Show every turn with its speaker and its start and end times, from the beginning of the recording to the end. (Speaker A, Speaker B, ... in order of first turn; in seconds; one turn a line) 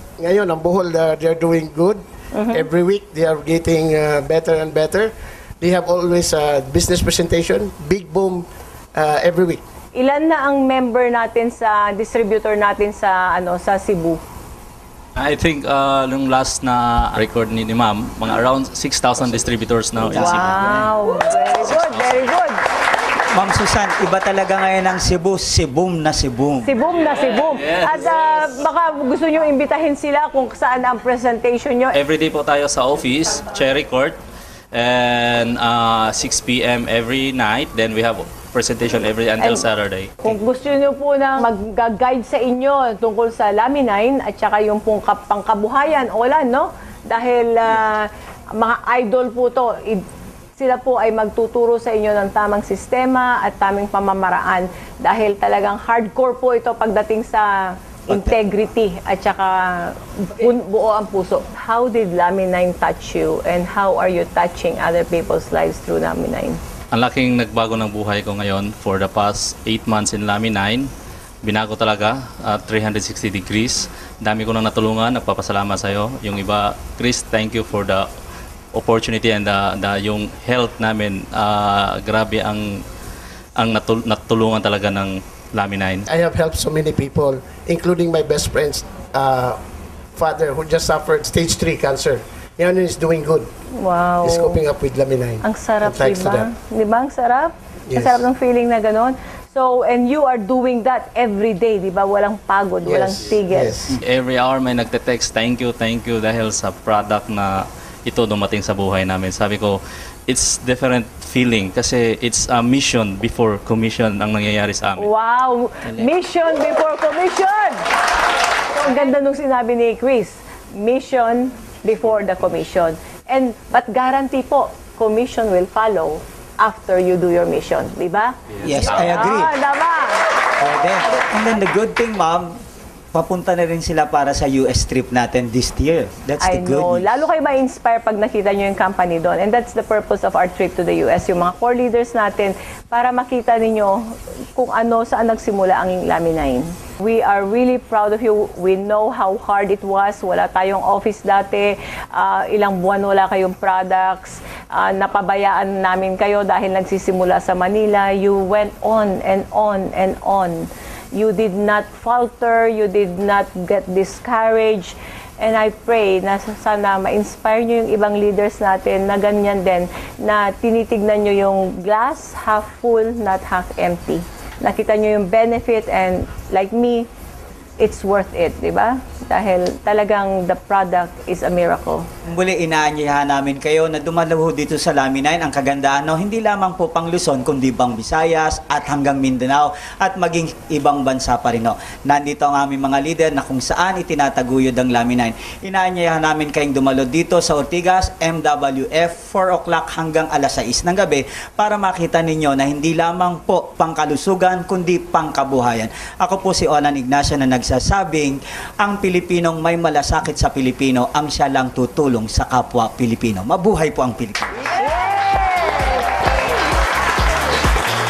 Speaker A: 0.2-9.6
Speaker B: 2.3-2.7
Speaker B: 9.9-14.2
Speaker C: 15.2-22.3
Speaker D: 20.0-20.8
Speaker B: 20.1-22.6
Speaker D: 23.3-26.7
Speaker B: 26.6-32.0
Speaker C: 27.0-28.5
Speaker C: 31.9-34.2
Speaker C: 34.7-40.4
Speaker B: 39.4-39.7
Speaker B: 40.2-50.0
Speaker B: 50.6-66.6
Speaker D: 58.1-58.4
Speaker C: 66.9-70.9
Speaker C: 71.4-78.1
Speaker C: 78.7-82.8
Speaker C: 83.6-86.0
Speaker A: 86.1-89.6
Speaker A: 90.2-93.5
Speaker B: 93.8-94.6
Speaker A: 94.2-96.5
Speaker B: 95.4-103.8
Speaker A: 97.9-98.2
Speaker A: 102.8-103.9
Speaker C: 103.9-115.1
Speaker B: 115.0-117.8
Speaker B: 118.7-130.2
Speaker D: 128.6-129.6
Speaker D: 130.6-132.5
Speaker D: 133.1-137.2
Speaker B: 136.4-177.1
Speaker B: 177.8-182.1
Speaker D: 182.2-214.7
Speaker B: 215.0-215.8